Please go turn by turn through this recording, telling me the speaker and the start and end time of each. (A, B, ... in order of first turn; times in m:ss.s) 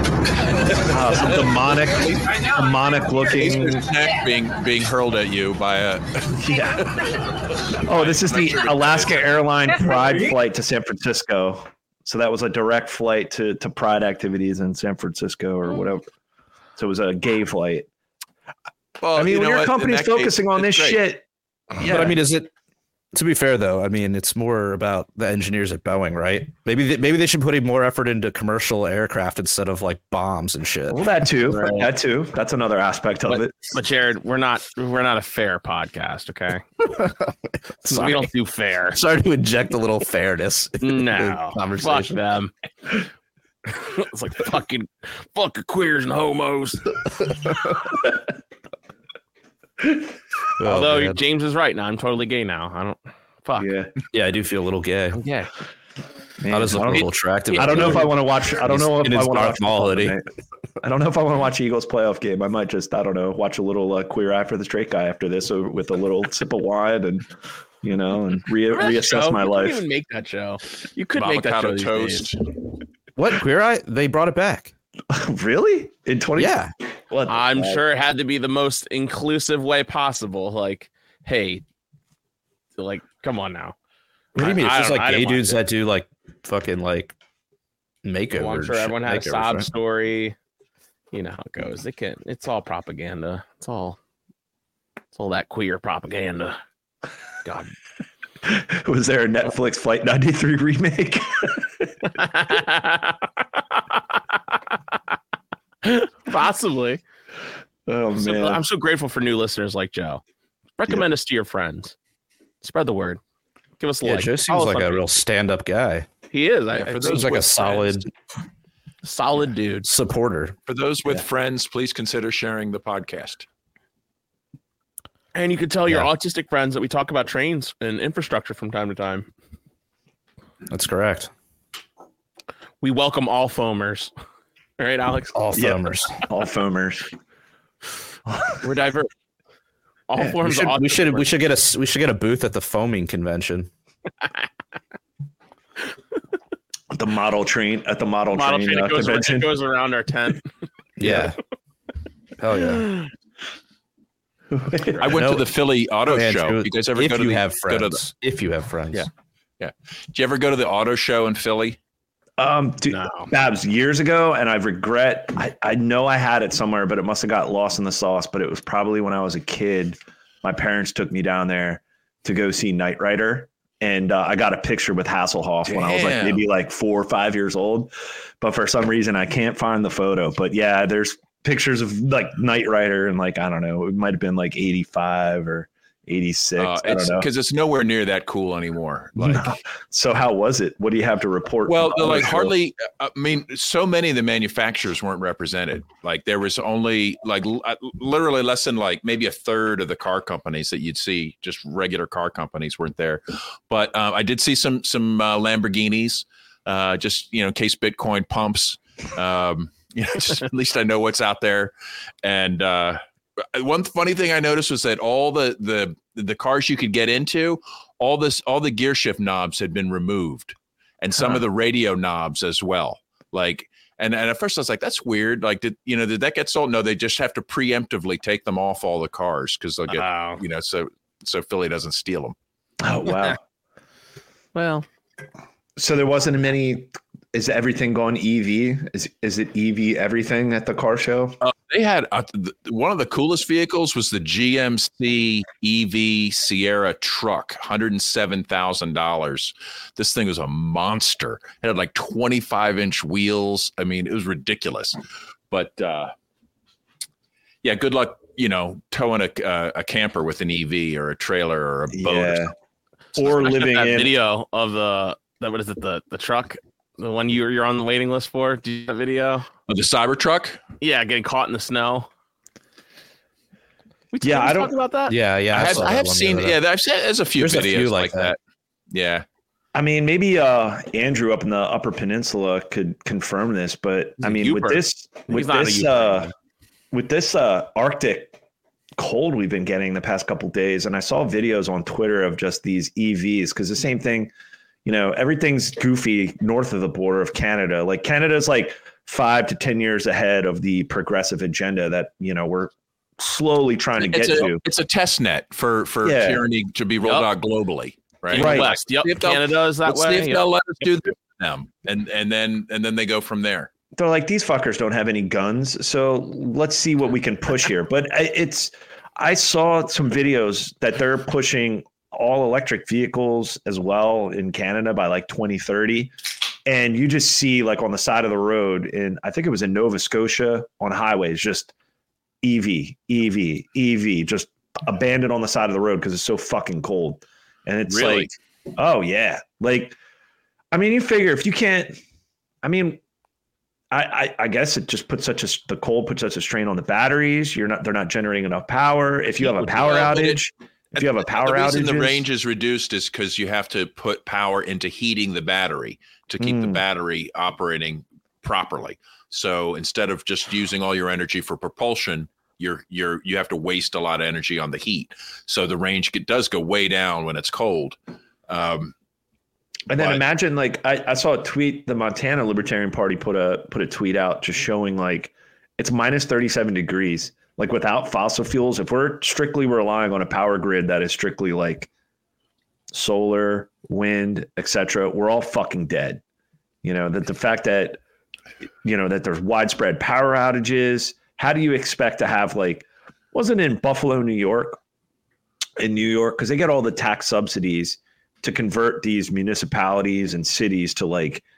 0:00.8-0:03.8 A
0:01.1-0:02.2 B
0:03.3-0:06.3 B
0:06.4-0:07.1 A
0:07.6-0:09.4 B
0:07.8-0:16.0 A
0:16.8-0:17.9 A
0:19.0-0:21.0 B
0:19.2-0:21.2 A
0:21.8-0:22.2 A
0:21.8-0:22.5 C
0:23.1-0:31.0 C
0:30.9-0:33.7 A
0:31.5-0:31.9 D
0:33.3-0:36.6 D
0:36.8-0:38.3 C
0:37.8-0:39.0 D
0:38.9-0:42.2 C
0:40.8-0:42.5 D
0:43.7-0:46.9 D
0:50.6-0:51.2 C
0:50.6-0:53.7 D
0:53.6-0:53.9 A
0:54.1-0:55.2 C
0:55.1-0:55.5 D
0:56.4-1:00.2 A
0:56.5-1:00.2 C
0:57.5-0:58.1 D
1:00.8-1:07.3 A
1:07.8-1:09.8 A
1:08.7-1:12.3 D
1:11.2-1:12.4 B
1:13.2-1:14.7 C
1:15.1-1:16.6 A
1:16.4-1:16.7 C
1:17.1-1:17.8 A
1:17.3-1:21.6 D
1:22.8-1:23.7 D
1:24.4-1:27.1 C
1:24.4-1:25.6 D
1:28.0-1:29.7 C
1:28.3-1:30.4 D
1:31.1-1:34.0 D
1:35.1-1:36.6 D
1:37.4-1:37.7 D
1:38.4-1:41.9 A
1:42.1-1:44.9 D
1:45.8-1:47.0 D
1:47.9-1:48.6 A
1:48.2-1:50.2 D
1:50.8-1:51.9 D
1:52.6-1:53.2 D
1:53.8-1:55.1 D
1:54.0-1:56.1 C
1:56.3-1:58.0 D
1:56.8-1:57.3 B
1:57.0-1:58.1 C
1:59.0-1:59.9 D
1:59.8-2:00.6 C
2:00.7-2:03.4 B
2:05.3-2:09.3 D
2:10.7-2:11.3 C
2:12.8-2:14.1 D
2:14.8-2:15.4 D
2:15.3-2:16.2 C
2:15.5-2:17.1 A
2:18.6-2:19.1 D
2:20.1-2:21.3 D
2:20.2-2:23.7 C
2:26.9-2:29.6 A
2:28.3-2:30.5 D
2:31.0-2:31.4 C
2:32.4-2:32.9 C
2:32.6-2:33.1 D
2:34.5-2:35.2 A
2:35.0-2:38.0 B
2:35.1-2:35.5 C
2:36.0-2:39.1 C
2:39.6-2:41.8 B
2:42.4-3:07.3 A
2:42.9-2:43.3 D
2:55.6-2:56.4 B
3:06.6-3:09.6 B
3:09.2-3:12.5 A
3:11.6-3:31.7 B
3:32.2-3:33.0 B
3:33.5-3:52.3 B
3:49.9-3:50.4 D
3:52.8-3:53.4 A
3:54.5-3:54.8 D
3:55.8-4:01.4 A
4:01.4-4:15.0 B
4:15.5-4:16.1 B
4:17.6-4:22.5 B
4:21.9-4:22.5 A
4:23.2-4:24.1 A
4:23.2-4:23.5 B
4:23.3-4:29.5 D
4:29.7-4:30.6 B
4:30.8-4:32.1 D
4:34.1-4:35.2 D
4:34.2-4:34.7 A
4:35.1-4:36.6 C
4:35.5-4:38.4 B
4:37.4-4:38.3 C
4:38.9-4:39.2 B
4:39.7-4:46.3 A
4:44.2-4:46.3 D
4:46.9-4:48.4 A
4:49.0-4:54.3 A
4:54.8-5:04.6 A
5:04.0-5:13.7 B
5:06.0-5:06.4 A
5:08.3-5:10.4 D
5:08.3-5:08.7 A
5:14.0-5:26.1 A
5:26.6-5:31.7 A
5:32.4-5:40.0 A
5:37.9-5:38.3 B
5:40.7-5:42.0 A
5:42.6-5:43.0 A
5:43.9-5:52.2 A
5:49.4-5:50.4 B
5:50.9-6:08.0 B
5:56.4-5:56.8 A
6:08.5-6:08.9 B
6:09.9-6:21.9 A
6:09.9-6:10.2 B
6:22.9-6:26.2 A
6:26.8-6:28.0 A
6:28.8-6:34.8 A
6:35.8-6:41.4 A